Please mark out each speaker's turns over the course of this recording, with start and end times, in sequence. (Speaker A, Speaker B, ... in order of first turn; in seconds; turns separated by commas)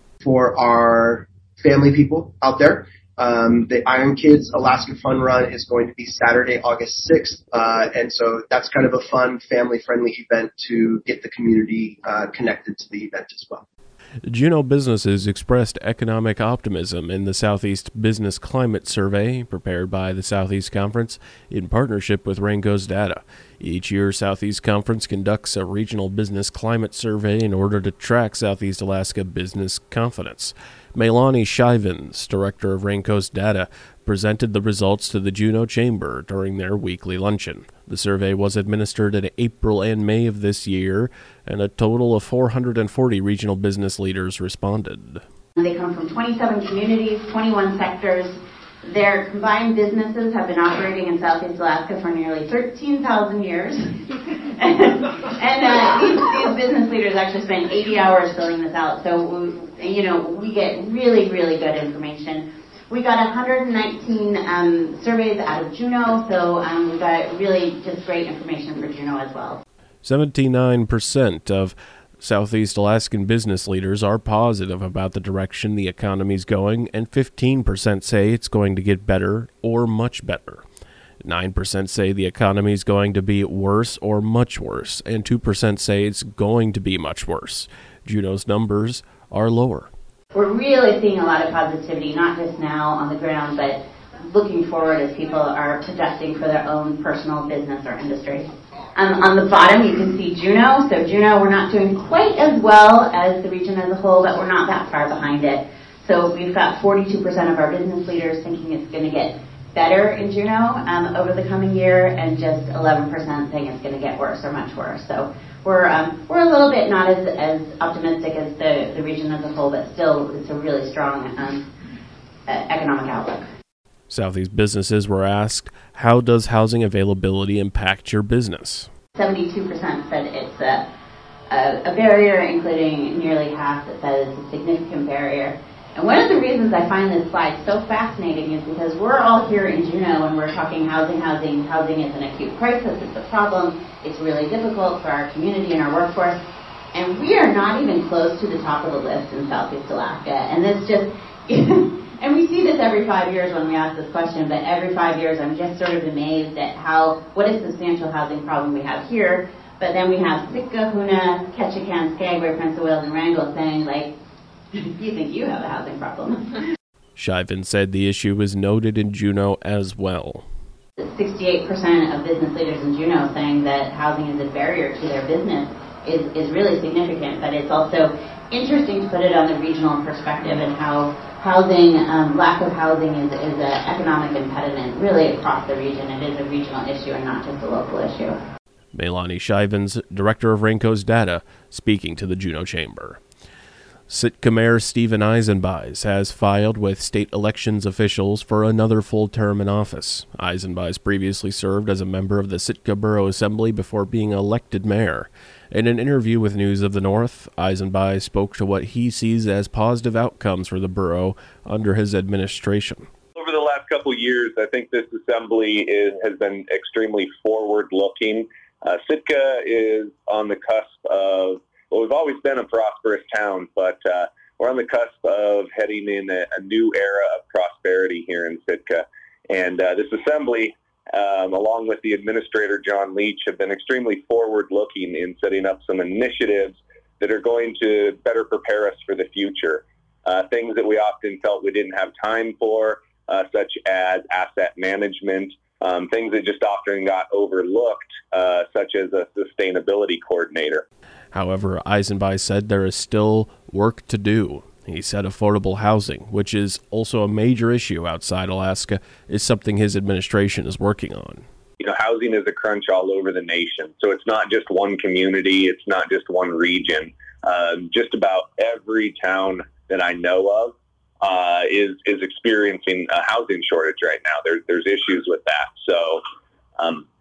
Speaker A: 0.2-13.6, Speaker B: 14.3-45.2, Speaker C: 45.5-53.9, Speaker C: 54.5-69.6, Speaker B: 70.0-80.6, Speaker B: 81.2-89.9, Speaker C: 90.3-121.7, Speaker C: 122.5-123.5, Speaker B: 124.1-128.9, Speaker C: 129.2-130.8, Speaker C: 131.5-146.4, Speaker C: 146.9-164.1, Speaker C: 164.7-166.7, Speaker B: 167.2-170.4, Speaker C: 171.0-188.3, Speaker B: 188.9-193.2, Speaker B: 194.1-213.1, Speaker D: 213.3-250.8, Speaker B: 251.3-261.4, Speaker D: 261.8-276.2, Speaker D: 276.8-277.1